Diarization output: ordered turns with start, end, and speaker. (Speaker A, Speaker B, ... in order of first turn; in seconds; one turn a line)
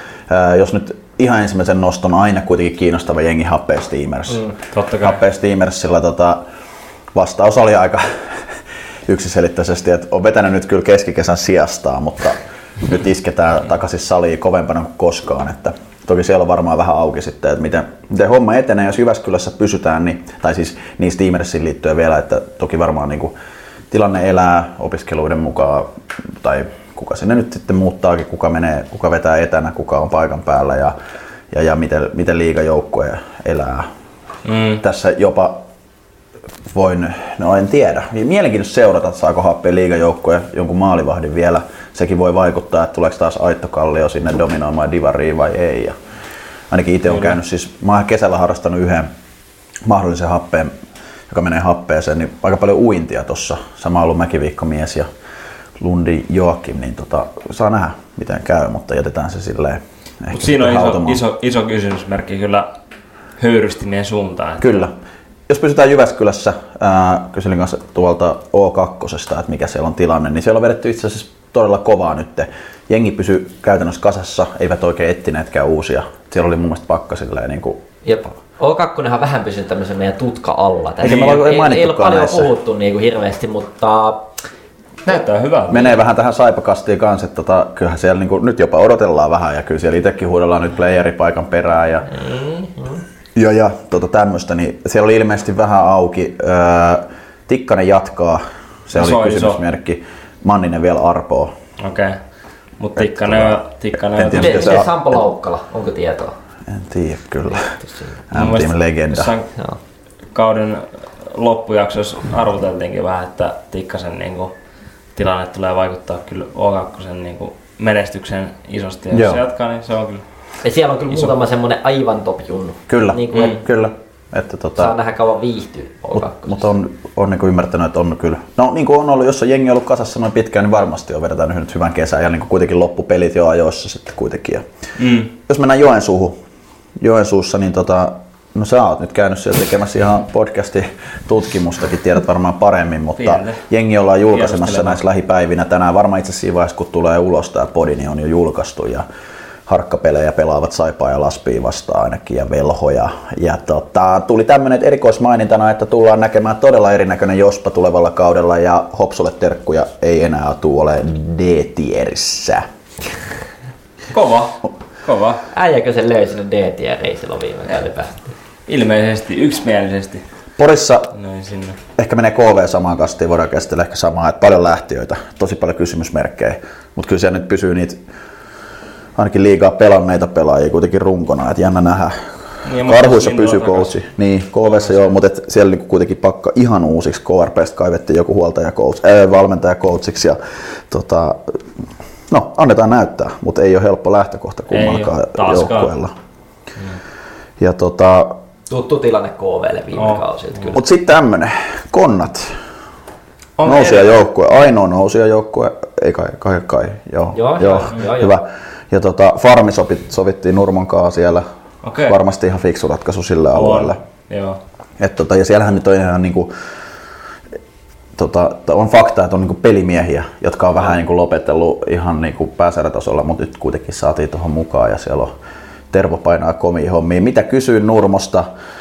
Speaker A: 0.3-4.5
Speaker B: 4.7-5.2
Speaker A: 5.0-6.4
Speaker A: 7.2-8.5
Speaker A: 9.1-23.4
Speaker A: 23.9-30.9
Speaker A: 31.5-33.9
Speaker B: 34.5-34.8
Speaker A: 34.8-35.6
Speaker A: 36.7-46.0
Speaker A: 46.7-49.1
Speaker B: 47.1-47.3
Speaker A: 49.9-50.8
Speaker A: 51.3-55.1
Speaker A: 55.8-61.2
Speaker B: 60.3-62.7
Speaker B: 63.4-64.7
Speaker A: 64.6-64.9
Speaker A: 65.5-77.8
Speaker C: 78.0-84.3
Speaker A: 81.0-82.5
Speaker B: 85.0-85.9
Speaker A: 85.7-92.1
Speaker C: 92.1-93.0
Speaker A: 93.3-101.5
Speaker B: 99.0-99.6
Speaker B: 101.8-102.2
Speaker B: 102.8-104.8
Speaker A: 103.0-105.2
Speaker C: 104.3-106.3
Speaker A: 106.7-107.7
Speaker C: 107.8-108.1
Speaker A: 108.3-109.3
Speaker B: 108.3-109.5
Speaker B: 110.3-114.5
Speaker B: 115.2-120.2
Speaker A: 119.1-119.4
Speaker C: 120.6-123.6
Speaker A: 122.9-124.9
Speaker C: 124.8-126.7
Speaker A: 126.4-134.7
Speaker B: 135.0-135.3
Speaker A: 135.3-136.4
Speaker A: 137.0-149.1
Speaker B: 143.2-143.6
Speaker B: 144.3-145.0
Speaker A: 149.7-162.7
Speaker B: 164.1-165.4
Speaker C: 165.5-168.3
Speaker B: 168.7-170.2
Speaker A: 170.6-171.1
Speaker B: 171.2-171.8
Speaker A: 172.0-178.0
Speaker A: 179.2-182.3
Speaker B: 182.7-183.9
Speaker A: 182.8-191.6
Speaker B: 184.7-185.1
Speaker A: 192.3-196.1
Speaker B: 194.7-195.9
Speaker A: 197.6-198.4
Speaker C: 198.7-200.8
Speaker B: 200.0-200.6
Speaker A: 200.7-202.6
Speaker B: 203.6-204.2
Speaker A: 203.6-211.5
Speaker C: 207.3-208.3
Speaker B: 211.8-212.2
Speaker A: 212.0-214.0
Speaker B: 213.5-214.6
Speaker A: 215.0-216.5
Speaker A: 218.2-225.3
Speaker A: 225.9-228.5